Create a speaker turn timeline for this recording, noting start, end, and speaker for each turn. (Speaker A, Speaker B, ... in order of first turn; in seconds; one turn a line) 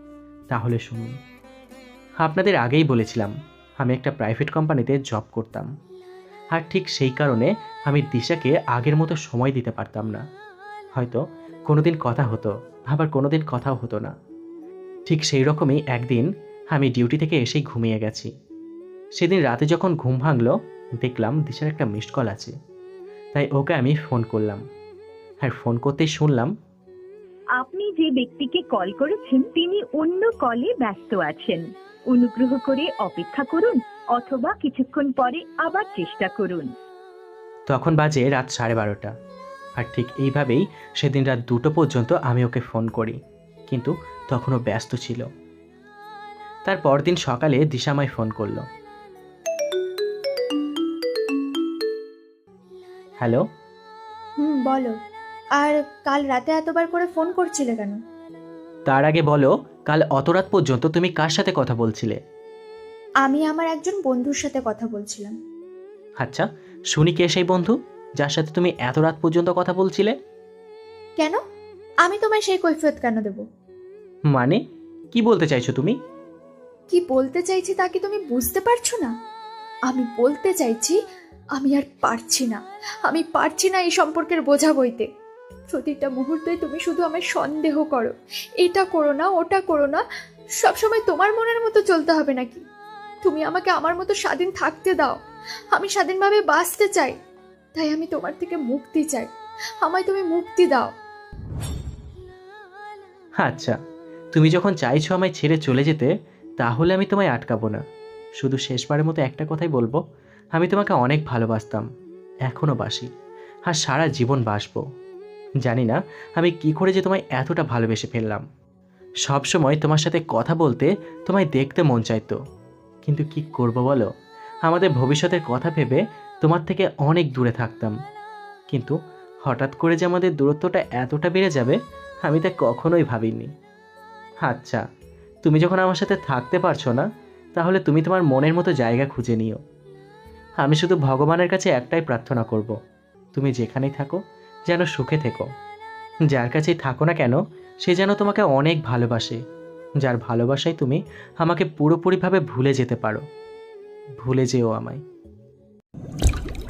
Speaker A: 0.5-1.1
Speaker A: 2.2-5.7
Speaker A: 6.5-10.2
Speaker A: 11.0-14.1
Speaker A: 15.1-18.3
Speaker A: 19.2-22.5
Speaker A: 23.3-24.6
Speaker A: 25.4-26.5
Speaker B: 27.6-36.7
Speaker A: 37.7-39.1
Speaker A: 39.8-43.2
Speaker A: 43.7-45.3
Speaker A: 46.7-48.6
Speaker C: 54.4-54.9
Speaker C: 55.6-58.0
Speaker A: 58.9-62.2
Speaker C: 63.2-65.3
Speaker A: 66.2-70.1
Speaker C: 72.0-73.4
Speaker A: 74.3-74.6
Speaker A: 75.1-76.0
Speaker C: 76.9-79.1
Speaker C: 79.9-81.0
Speaker C: 81.6-85.1
Speaker C: 85.7-90.0
Speaker C: 90.6-92.6
Speaker C: 93.2-95.2
Speaker C: 95.7-97.2
Speaker C: 97.8-99.3
Speaker C: 99.8-100.9
Speaker A: 103.4-103.8
Speaker A: 104.3-107.8
Speaker A: 108.4-110.0
Speaker A: 110.5-111.8
Speaker A: 112.5-113.1
Speaker A: 113.7-114.8
Speaker A: 115.6-118.4
Speaker A: 119.3-122.4
Speaker A: 123.1-124.1
Speaker A: 124.7-127.9
Speaker A: 128.7-133.5
Speaker A: 134.4-134.8
Speaker A: 135.4-139.6
Speaker A: 140.6-142.7
Speaker A: 143.3-144.2
Speaker A: 144.7-145.4
Speaker A: 146.3-149.4
Speaker A: 150.0-153.2
Speaker A: 154.2-155.0